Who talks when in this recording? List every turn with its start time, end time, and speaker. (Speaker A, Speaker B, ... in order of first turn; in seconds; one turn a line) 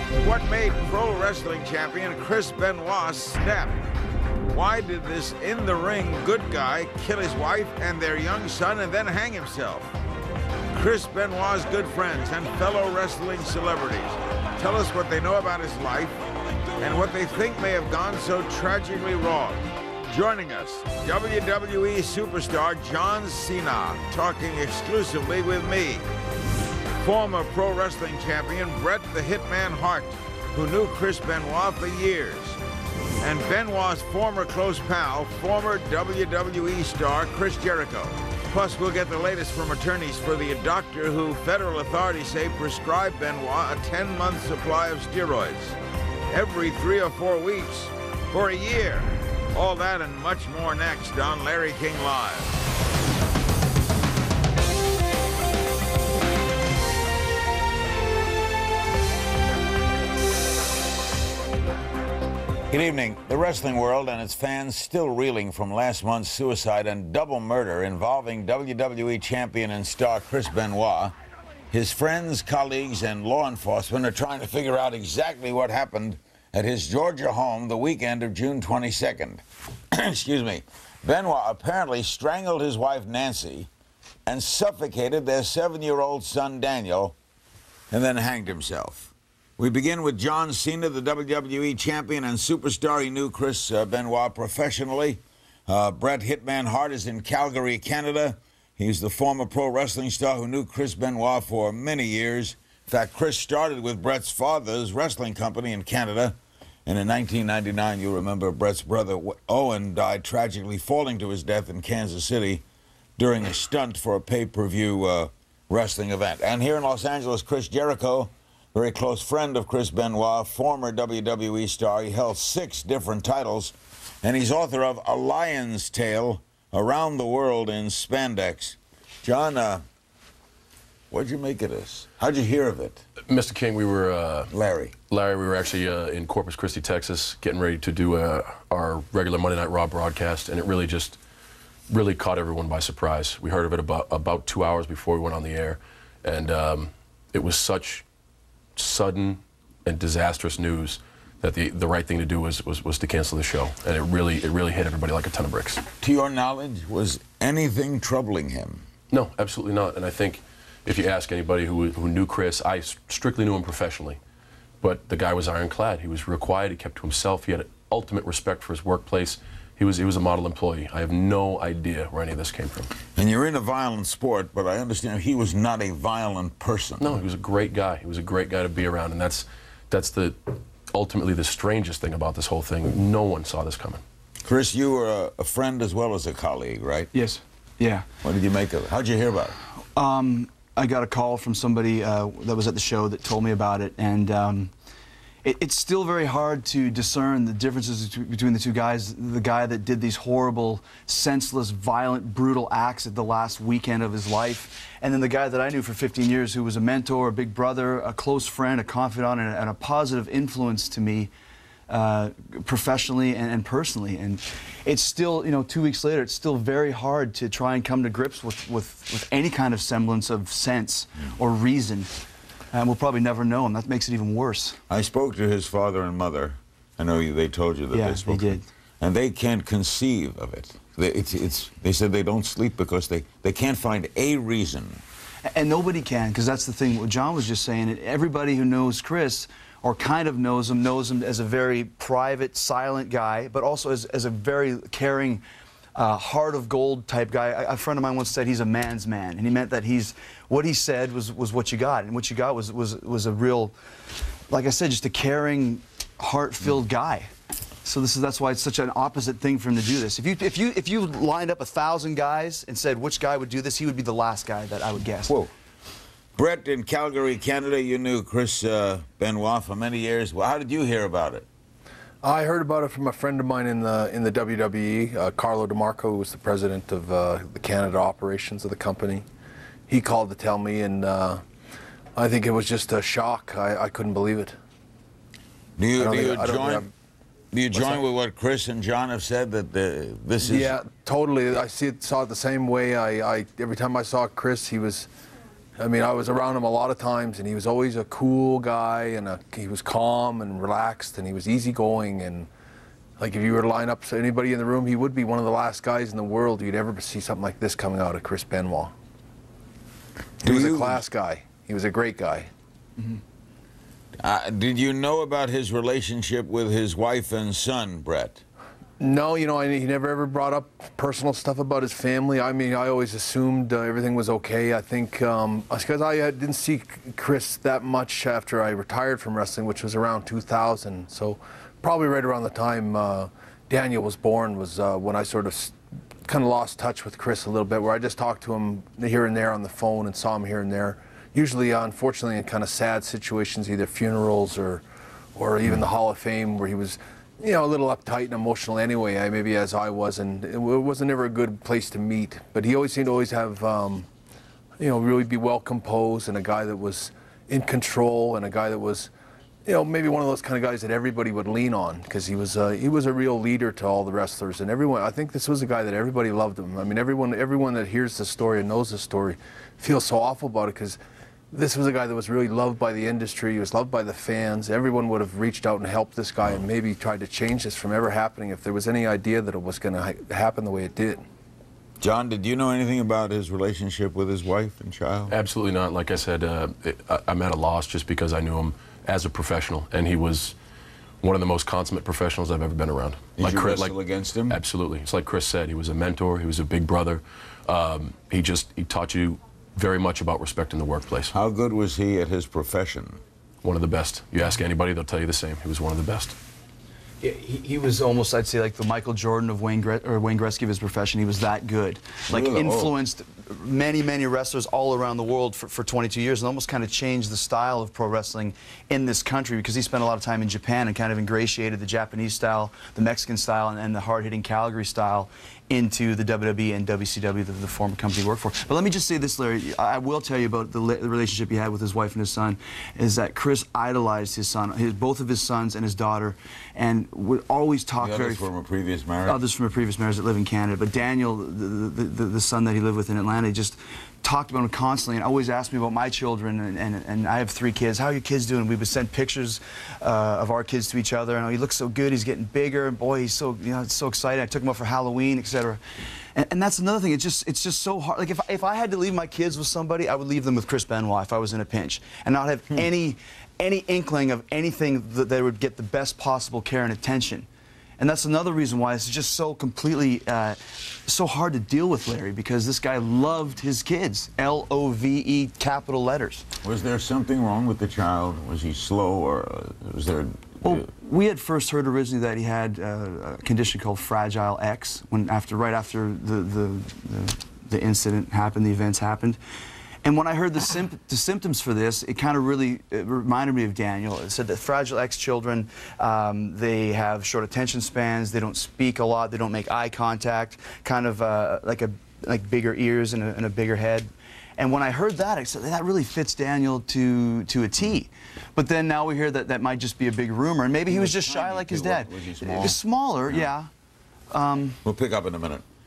Speaker A: 0.2-3.8
Speaker A: 4.5-9.9
Speaker A: 10.7-16.2
Speaker A: 16.8-26.0
Speaker A: 27.0-32.6
Speaker A: 33.2-45.8
Speaker A: 46.3-52.6
Speaker A: 62.7-71.2
Speaker A: 71.7-83.7
Speaker A: 84.3-87.2
Speaker A: 87.9-112.6
Speaker A: 113.2-129.8
Speaker A: 131.1-133.0
Speaker B: 133.3-134.5
Speaker A: 134.5-134.9
Speaker B: 135.1-141.2
Speaker B: 141.9-148.1
Speaker B: 148.8-155.8
Speaker A: 156.0-158.8
Speaker B: 159.1-164.2
Speaker B: 164.8-172.9
Speaker A: 173.2-177.2
Speaker B: 177.0-184.0
Speaker A: 184.4-187.1
Speaker C: 187.1-188.1
Speaker A: 188.2-189.6
Speaker C: 189.9-194.7
Speaker C: 195.4-211.3
Speaker C: 211.9-222.1
Speaker C: 222.7-224.8
Speaker A: 224.9-235.0
Speaker C: 227.9-228.7
Speaker C: 235.5-245.4
Speaker C: 245.9-253.8
Speaker C: 254.5-257.3
Speaker C: 257.8-265.4
Speaker A: 266.4-271.5
Speaker D: 272.2-279.3
Speaker D: 279.9-281.4
Speaker D: 282.2-284.6
Speaker A: 285.8-286.9
Speaker D: 286.0-286.9
Speaker A: 287.5-290.8
Speaker D: 287.7-288.0
Speaker D: 290.4-295.1
Speaker D: 295.8-302.5
Speaker D: 303.2-308.9
Speaker D: 310.4-312.5
Speaker A: 310.4-311.0
Speaker A: 314.2-318.4
Speaker D: 319.0-344.8
Speaker D: 345.4-354.1
Speaker D: 354.8-359.1
Speaker D: 359.7-371.0
Speaker D: 371.5-381.2
Speaker A: 382.0-385.3
Speaker B: 385.3-390.6
Speaker B: 391.2-393.9
Speaker A: 393.4-394.6
Speaker B: 394.5-401.3
Speaker A: 401.3-403.2
Speaker B: 403.6-406.4
Speaker C: 407.2-438.5
Speaker A: 412.3-412.9
Speaker A: 438.0-439.4
Speaker C: 439.3-455.8
Speaker C: 456.3-467.5
Speaker C: 468.0-476.4
Speaker A: 476.6-480.9
Speaker C: 480.6-489.4
Speaker C: 490.0-513.7
Speaker A: 510.9-513.5
Speaker C: 514.3-514.8
Speaker A: 514.8-515.6